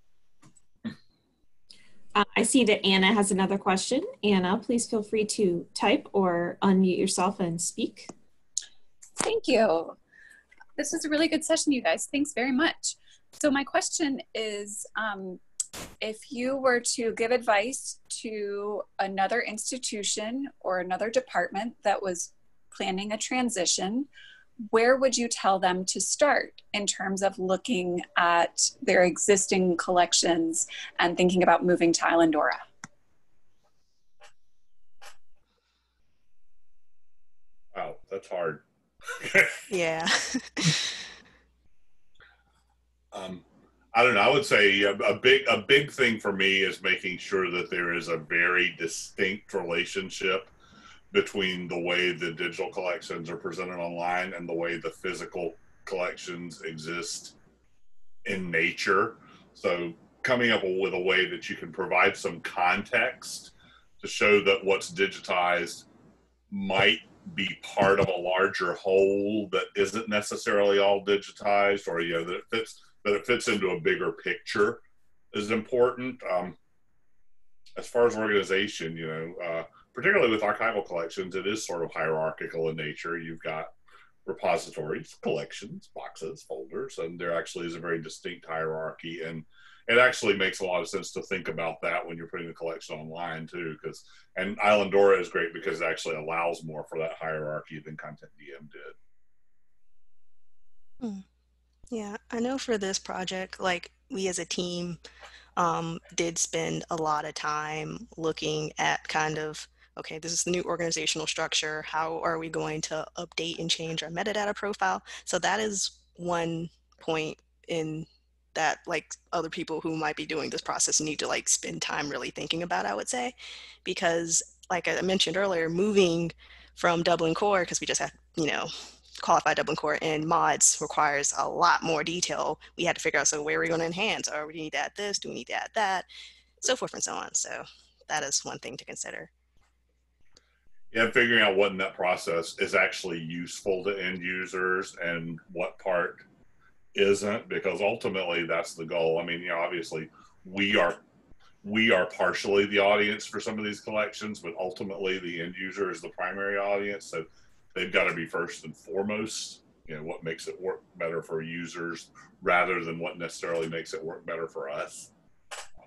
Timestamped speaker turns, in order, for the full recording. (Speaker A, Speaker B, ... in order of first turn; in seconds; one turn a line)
Speaker A: 2.1-8.1
Speaker B: 9.2-10.0
Speaker B: 10.8-15.4
Speaker B: 16.0-24.1
Speaker B: 24.7-32.6
Speaker C: 37.7-39.6
Speaker D: 39.7-40.9
Speaker C: 43.1-50.5
Speaker C: 51.1-57.3
Speaker C: 58.2-65.8
Speaker C: 66.5-74.8
Speaker C: 75.3-76.5
Speaker C: 77.8-83.7
Speaker C: 84.2-98.9
Speaker D: 101.9-105.0
Speaker D: 105.5-136.1
Speaker D: 136.6-139.3
Speaker C: 140.9-146.2
Speaker C: 146.9-151.0
Speaker C: 151.6-165.1